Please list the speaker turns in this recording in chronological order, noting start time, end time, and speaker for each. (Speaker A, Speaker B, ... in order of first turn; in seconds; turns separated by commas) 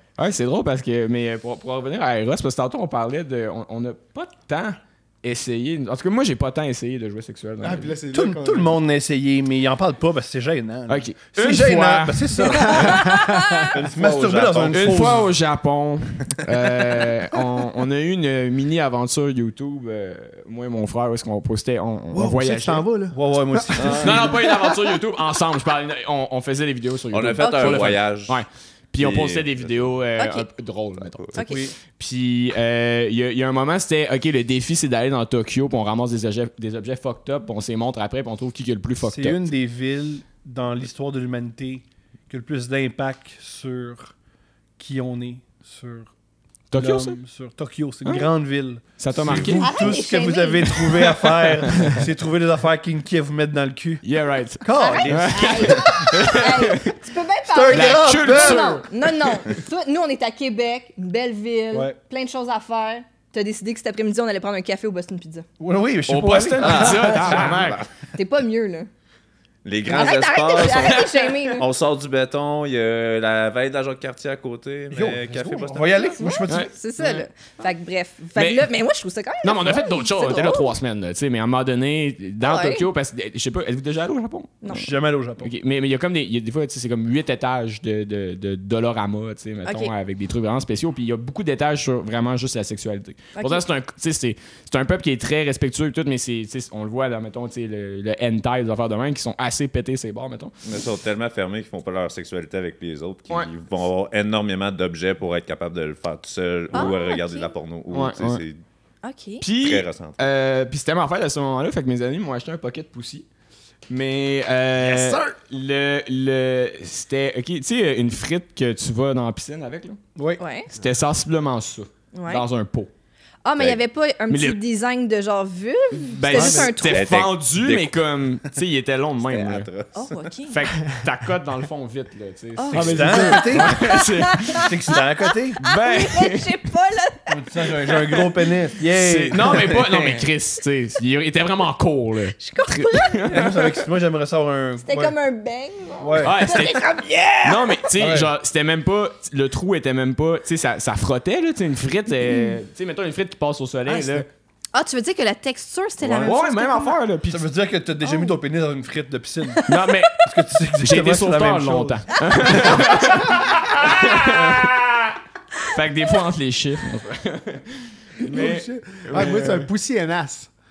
Speaker A: 0.2-7.9, Speaker B: 7.6-8.8, Speaker C: 8.1-13.0, Speaker A: 10.9-13.7, Speaker B: 12.6-13.7, Speaker D: 12.8-13.6, Speaker E: 13.7-15.3, Speaker C: 13.7-15.3, Speaker A: 14.7-22.9, Speaker B: 22.1-24.0, Speaker C: 23.1-24.4, Speaker E: 23.8-24.3, Speaker A: 24.0-39.4, Speaker B: 24.5-24.8, Speaker E: 27.1-28.4, Speaker D: 27.4-27.9, Speaker E: 29.0-30.0, Speaker D: 30.2-30.5, Speaker E: 31.0-31.4, Speaker D: 31.4-31.7, Speaker C: 31.5-31.8, Speaker C: 39.0-44.1, Speaker C: 44.8-46.1, Speaker A: 46.7-47.2, Speaker C: 46.7-54.0, Speaker A: 49.0-50.0, Speaker E: 49.2-49.5, Speaker D: 49.6-51.2, Speaker A: 51.6-52.0, Speaker A: 54.0-57.0, Speaker C: 54.6-56.1, Speaker D: 54.7-65.5, Speaker C: 57.5-58.8, Speaker A: 57.7-59.4, Speaker C: 65.6-67.6, Speaker A: 66.1-67.9, Speaker E: 66.6-67.9, Speaker D: 68.1-68.9, Speaker E: 69.7-76.2, Speaker D: 69.9-71.7, Speaker A: 70.8-71.1, Speaker C: 74.9-76.7, Speaker D: 76.0-80.7, Speaker A: 76.5-77.3, Speaker A: 78.4-78.7, Speaker A: 79.4-100.5, Speaker D: 82.4-82.9, Speaker D: 84.6-84.9, Speaker C: 84.7-85.5, Speaker D: 89.7-89.9, Speaker D: 93.3-93.7, Speaker E: 100.6-108.6, Speaker D: 106.7-107.5, Speaker A: 107.9-108.4, Speaker D: 109.0-109.5, Speaker A: 109.4-113.3, Speaker E: 109.6-110.2, Speaker A: 113.9-120.0, Speaker C: 120.2-120.4, Speaker D: 120.4-120.7, Speaker A: 120.7-122.9, Speaker D: 122.1-122.5, Speaker D: 123.5-127.2, Speaker A: 124.3-124.6, Speaker A: 126.0-129.7, Speaker B: 126.3-126.7, Speaker E: 126.8-128.0, Speaker E: 129.2-130.2, Speaker D: 129.9-130.7, Speaker A: 130.5-134.7, Speaker D: 132.6-138.0, Speaker C: 132.7-133.9, Speaker B: 132.7-133.6, Speaker C: 134.5-135.6, Speaker A: 135.6-136.6, Speaker C: 137.3-140.3, Speaker A: 138.9-143.8, Speaker D: 142.4-143.5, Speaker C: 143.3-145.2, Speaker D: 144.8-148.0, Speaker C: 146.0-146.6, Speaker A: 146.2-146.8, Speaker A: 147.4-154.3, Speaker C: 148.0-148.3, Speaker D: 152.3-152.6, Speaker B: 153.9-154.2, Speaker D: 154.7-157.0, Speaker E: 156.0-156.3, Speaker A: 156.2-157.5, Speaker C: 157.3-159.7, Speaker A: 159.7-160.3, Speaker C: 160.2-162.7, Speaker A: 160.8-169.7, Speaker D: 162.6-163.2, Speaker B: 168.3-170.5